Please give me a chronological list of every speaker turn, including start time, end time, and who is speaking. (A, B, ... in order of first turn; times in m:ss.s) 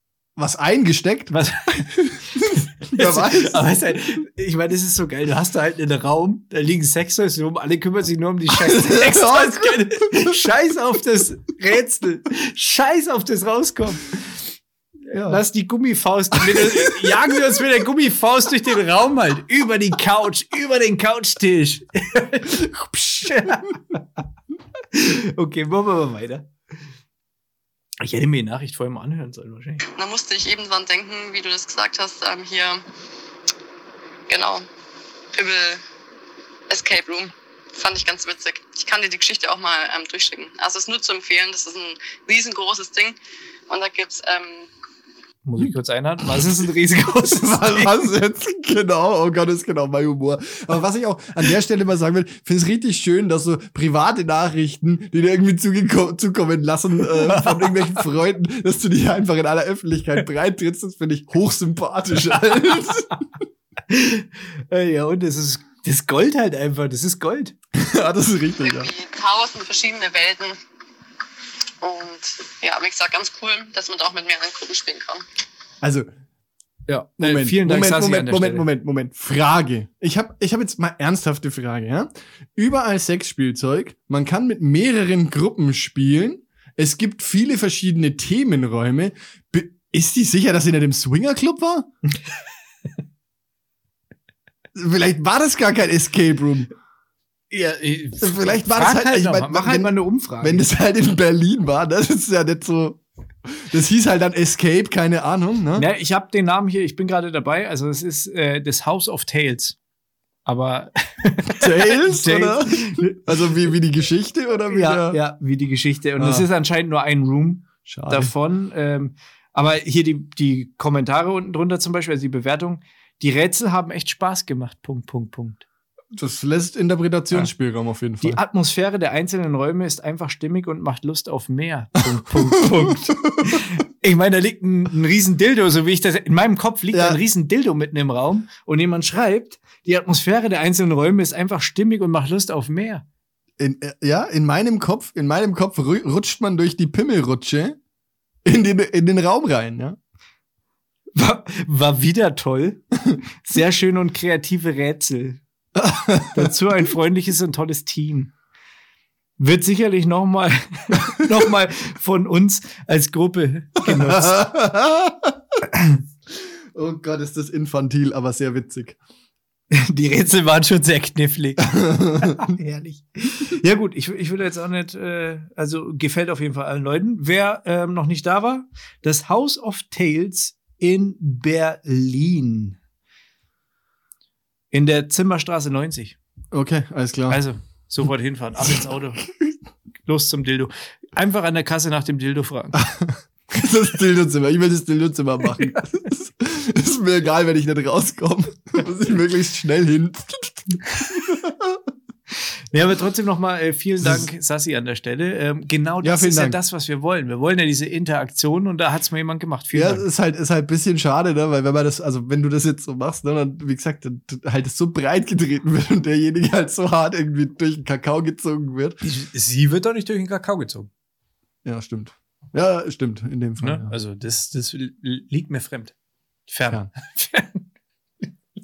0:00.4-0:01.3 A
0:01.3-0:14.2 B
0:02.4-0:03.7 A
0:08.5-0:10.3 A
0:15.1-0:24.0 B
0:15.1-0:15.4 A
0:16.3-0:17.6 A
0:23.2-0:23.5 A
0:24.9-0:26.5 B
0:28.0-0:29.8 B
0:29.9-0:32.8 C
0:34.3-0:34.6 C
0:35.3-0:35.8 C
0:36.7-0:43.2 C
0:43.7-0:44.7 C
0:45.4-0:47.9 B
0:47.2-1:03.1 A
0:57.2-0:58.0 B
1:03.9-1:07.5 B
1:07.7-1:08.9 A
1:08.6-1:10.6 C
1:11.8-1:15.2 C
1:15.8-1:16.1 A
1:16.9-1:18.7 B
1:17.2-1:31.9 A
1:34.7-1:36.7 A
1:37.5-1:40.6 B
1:38.2-1:45.9 A
1:45.8-1:49.8 B
1:50.4-1:53.4 B
1:51.5-1:55.2 A
1:54.7-2:05.6 B
1:56.2-1:56.4 A
1:57.8-1:58.3 A
2:06.1-2:08.4 A
2:08.2-2:23.0 B
2:12.2-2:13.6 A
2:16.9-2:17.2 A
2:23.6-2:27.8 A
2:28.4-2:30.0 A
2:31.1-2:32.8 B
2:33.4-2:35.4 B
2:35.8-2:36.5 A
2:36.3-2:38.3 B
2:39.4-2:44.4 B
2:43.8-2:45.6 A
2:46.3-2:49.0 A
2:49.7-3:02.8 B
2:51.6-2:52.5 A
3:04.7-3:06.2 B
3:06.5-3:07.4 A
3:07.3-3:09.2 B
3:10.0-3:12.8 B
3:12.8-3:21.8 A
3:22.7-3:30.0 B
3:24.0-3:24.3 A
3:26.0-3:26.6 A
3:29.7-3:39.0 A
3:39.0-3:40.9 B
3:41.6-3:43.9 A
3:43.6-3:45.9 B
3:46.5-3:47.6 B